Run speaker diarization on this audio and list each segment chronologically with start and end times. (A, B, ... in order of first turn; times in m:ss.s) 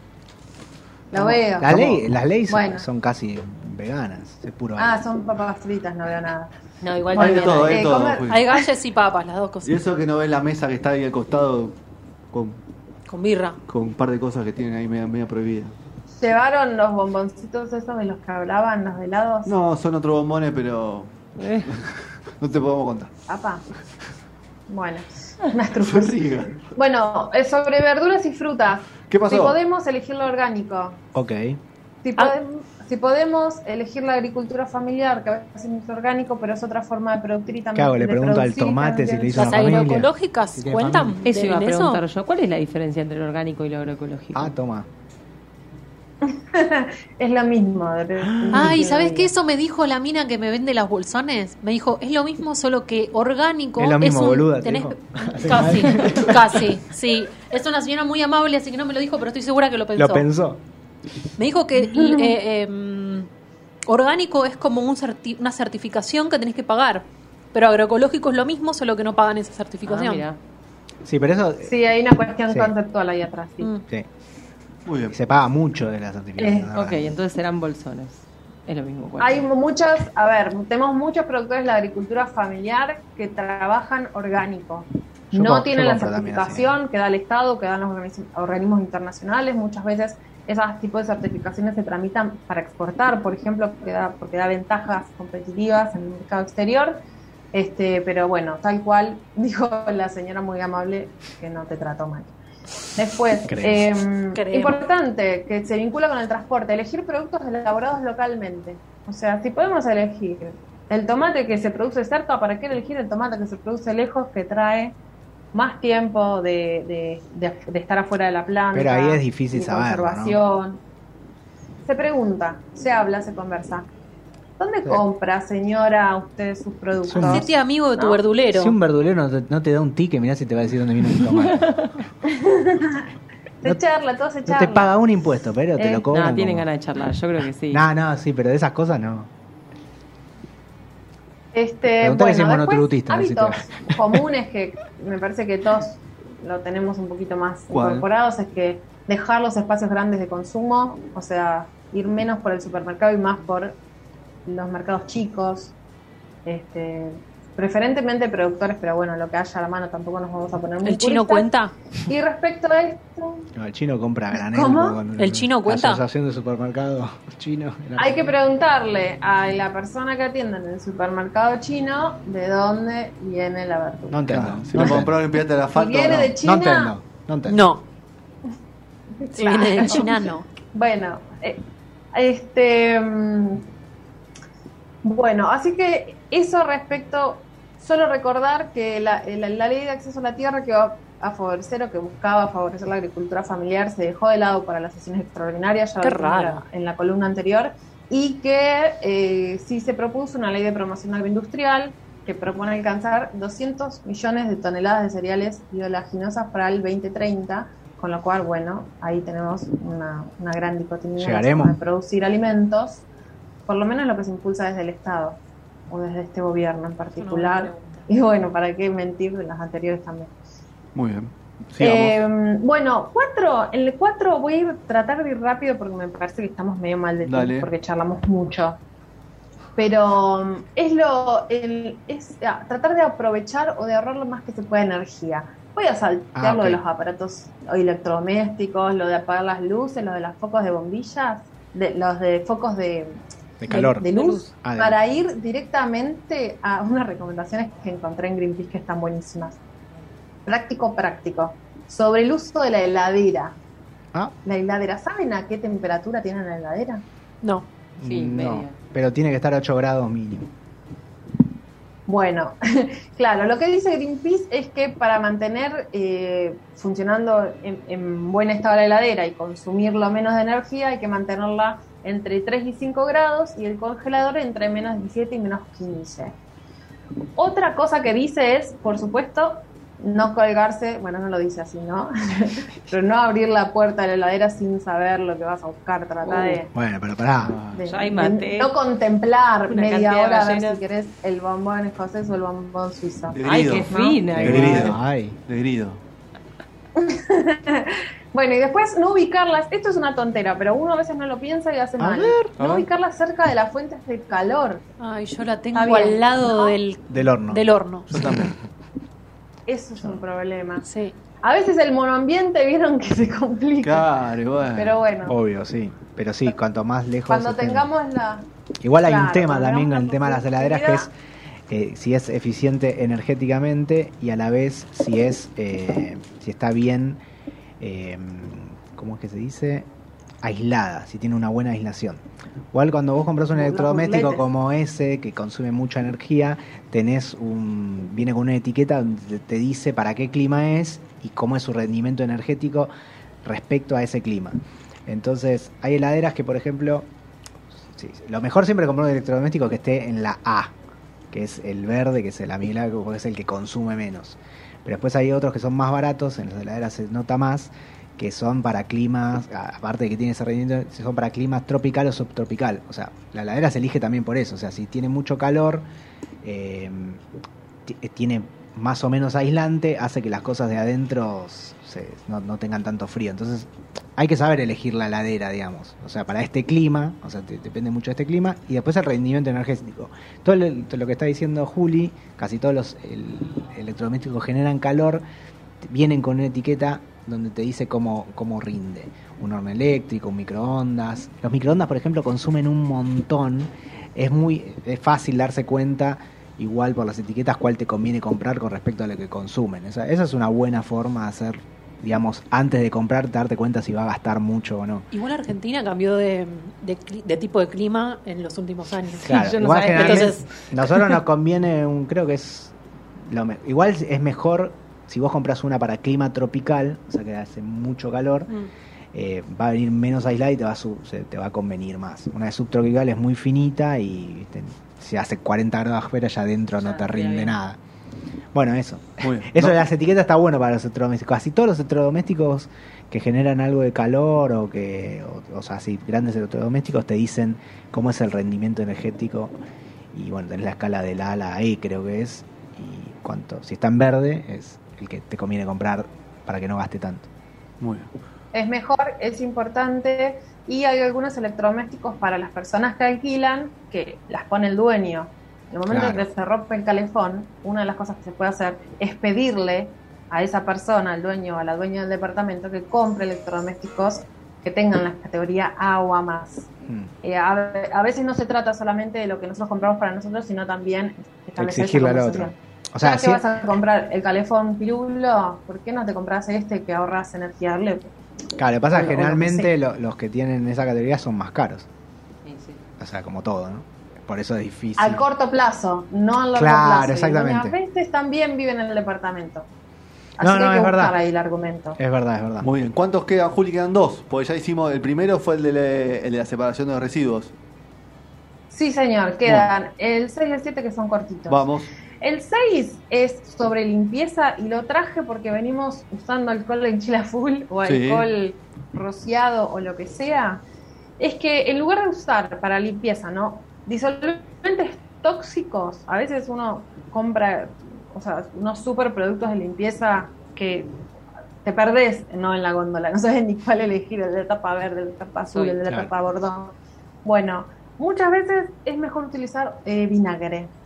0:01.1-0:02.8 A
0:01.2-0:05.0 B
0:04.8-0:06.5 A
0:06.8-0:09.8 C
0:07.1-0:08.6 A
0:07.1-0:08.4 D
0:07.2-0:07.7 E
0:09.6-0:11.8 D
0:12.3-0:12.6 D
0:13.1-0:13.6 C
0:13.7-0:15.7 D
0:16.2-0:19.5 A
0:19.4-0:23.1 D
0:21.4-0:21.7 E
0:23.3-0:23.6 A
0:24.7-0:26.2 A
0:25.8-0:26.6 D
0:26.7-0:31.0 A
0:29.1-0:29.6 D
0:31.1-0:31.6 B
0:32.0-0:39.9 A
0:37.7-0:41.2 B
0:39.3-0:42.0 C
0:41.2-0:44.5 E
0:44.3-0:44.9 B
0:46.2-0:49.3 A
0:48.4-0:48.8 B
0:48.5-1:00.3 C
0:53.8-0:56.7 B
0:59.9-1:00.6 B
1:01.4-1:03.3 C
1:01.8-1:02.3 A
1:03.9-1:10.2 C
1:09.8-1:10.4 E
1:11.0-1:11.7 B
1:11.6-1:13.7 A
1:14.8-1:15.2 D
1:15.1-1:17.2 B
1:16.4-1:16.7 A
1:16.7-1:19.5 E
1:19.2-1:37.0 A
1:25.3-1:26.8 B
1:37.5-1:42.3 A
1:42.9-1:54.9 A
1:43.4-1:43.8 B
1:44.3-1:44.8 C
1:55.5-2:00.8 A
1:58.7-2:00.4 B
2:01.8-2:03.9 A
2:04.6-2:08.2 A
2:07.0-2:07.4 B
2:07.2-2:08.8 C
2:08.5-2:11.9 B
2:11.5-2:11.8 E
2:12.3-2:13.0 A
2:13.6-2:14.9 A
2:14.5-2:16.7 B
2:15.8-2:16.0 A
2:16.1-2:17.8 E
2:17.7-2:19.3 B
2:21.5-2:33.8 A
2:22.0-2:24.0 B
2:27.7-2:28.0 D
2:34.4-2:35.7 A
2:36.4-2:41.5 A
2:40.8-2:41.7 C
2:42.1-2:43.5 A
2:43.6-2:48.4 B
2:44.4-2:45.0 A
2:45.2-2:46.0 C
2:48.0-2:54.3 A
2:54.1-2:55.2 B
2:54.3-2:56.4 D
2:55.7-2:56.9 A
2:56.2-2:57.7 B
2:57.5-2:57.8 C
2:59.2-3:01.6 A
2:59.3-3:00.4 C
3:02.1-3:03.6 A
3:05.0-3:33.0 A
3:16.0-3:16.6 C
3:31.2-3:31.8 B
3:33.7-3:35.4 A
3:35.9-3:40.3 A
3:37.2-3:38.0 C
3:40.9-3:42.2 D
3:41.8-3:48.8 A
3:47.2-3:47.7 D
3:49.8-4:03.2 A
3:56.4-3:56.8 B
4:03.6-4:05.0 B
4:03.7-4:09.6 A
4:03.7-4:04.4 C
4:10.4-4:13.6 A
4:14.4-4:17.0 A
4:18.0-4:20.5 B
4:18.0-4:18.7 E
4:22.1-4:36.3 A
4:37.4-4:46.7 A
4:46.3-4:47.6 B
4:47.4-4:47.8 D
4:47.7-4:54.6 A
4:47.8-4:48.7 E
4:49.7-4:50.8 E
4:53.3-4:56.0 D
4:53.4-4:54.9 E
4:54.3-4:55.4 B
4:57.0-5:04.8 A
5:02.0-5:02.5 B
5:02.6-5:02.9 D
5:05.0-5:08.4 C
5:05.7-5:06.8 A
5:07.1-5:07.6 B
5:08.1-5:08.6 D
5:09.7-5:10.8 A
5:10.8-5:11.1 C
5:11.4-5:14.1 A
5:13.8-5:15.0 D
5:14.7-5:15.4 A
5:15.2-5:17.9 B
5:17.3-5:18.5 A
5:18.8-5:21.1 B
5:19.0-5:21.1 A
5:21.7-5:27.2 B
5:27.8-5:29.9 B
5:30.4-5:42.9 B
5:33.5-5:34.5 A
5:43.4-5:47.1 B
5:47.9-5:50.7 B
5:51.3-6:05.8 B
6:06.4-6:07.2 B
6:07.8-6:25.2 B
6:25.8-6:45.1 B
6:45.1-6:50.9 C
6:49.2-6:50.4 E
6:49.2-6:52.7 B
6:53.2-6:58.5 B
6:59.1-7:07.8 B
7:06.8-7:07.5 E
7:08.5-7:19.5 B
7:09.2-7:09.8 D
7:20.1-7:27.3 B
7:27.8-7:28.1 D
7:28.5-7:46.7 A
7:35.9-7:36.3 B
7:47.2-7:58.1 A
7:51.6-7:53.4 B
7:58.6-8:01.8 B
7:58.9-7:59.7 A
8:02.4-8:02.8 E
8:03.0-8:05.2 B
8:05.0-8:09.7 A
8:06.5-8:07.7 B
8:10.4-8:12.0 A
8:10.4-8:11.2 B
8:12.0-8:12.7 B
8:12.6-8:17.5 D
8:18.7-8:21.7 A
8:19.4-8:19.7 D
8:21.5-8:21.9 D
8:22.2-8:30.6 A
8:27.8-8:28.3 D
8:31.2-8:40.9 A
8:41.6-8:50.7 A